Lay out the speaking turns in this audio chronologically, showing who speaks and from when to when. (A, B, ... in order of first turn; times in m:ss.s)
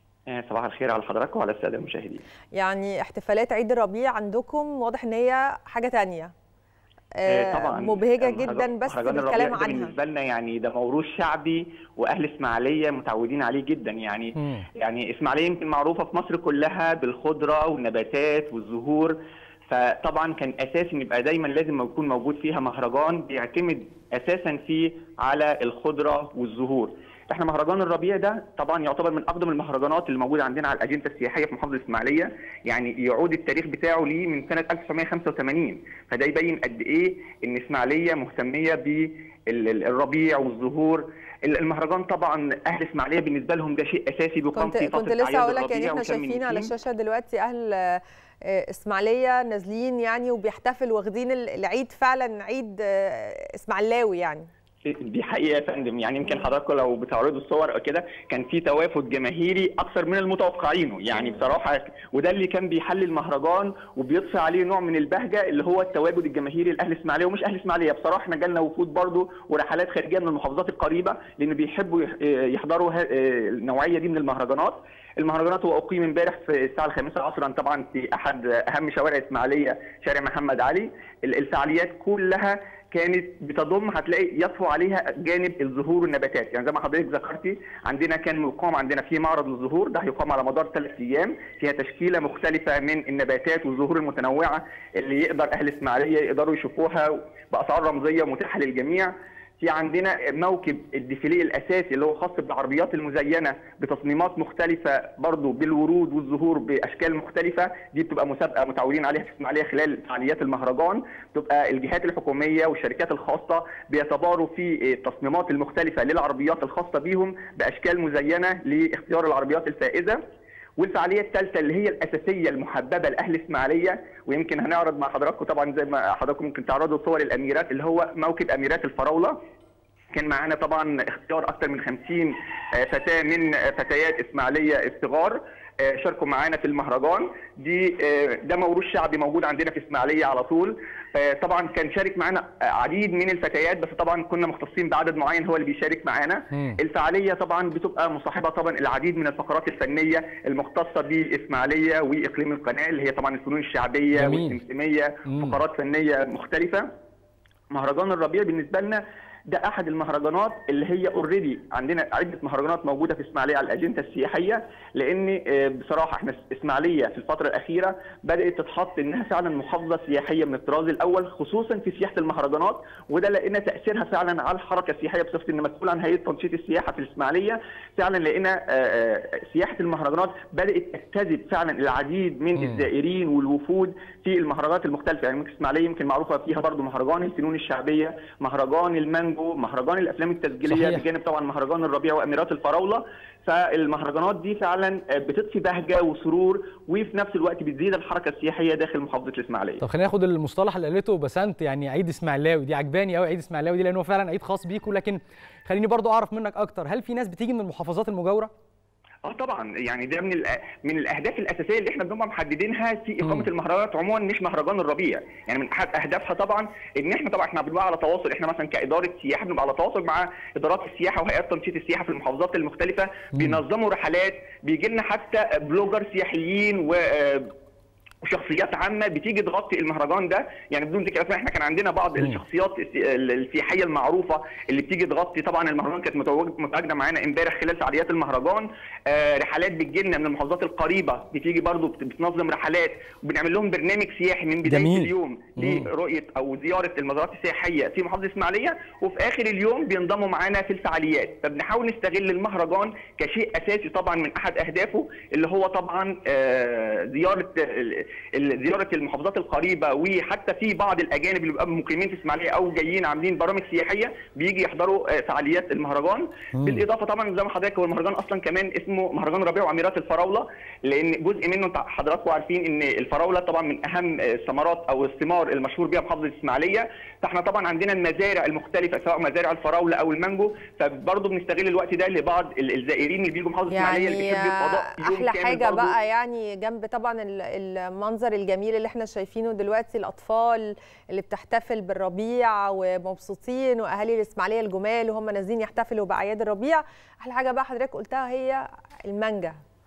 0:00.3-0:02.2 A
0:02.5-0:06.3 B
0:07.1-0:09.9 B
0:07.3-0:19.2 A
0:14.4-0:14.6 C
0:19.7-0:46.7 A
0:44.5-0:54.5 B
0:54.8-2:00.2 A
2:00.8-2:09.3 A
2:10.1-2:36.8 A
2:26.5-2:26.8 C
2:34.1-2:34.6 C
2:35.3-2:35.6 C
2:37.7-3:19.8 A
3:02.6-3:02.8 C
3:10.7-3:11.0 C
3:19.8-3:28.5 C
3:29.2-3:47.5 A
3:33.2-3:33.5 C
3:43.3-3:43.6 C
3:48.2-4:45.9 A
4:04.6-4:05.9 C
4:26.5-4:26.8 C
4:43.7-4:59.6 B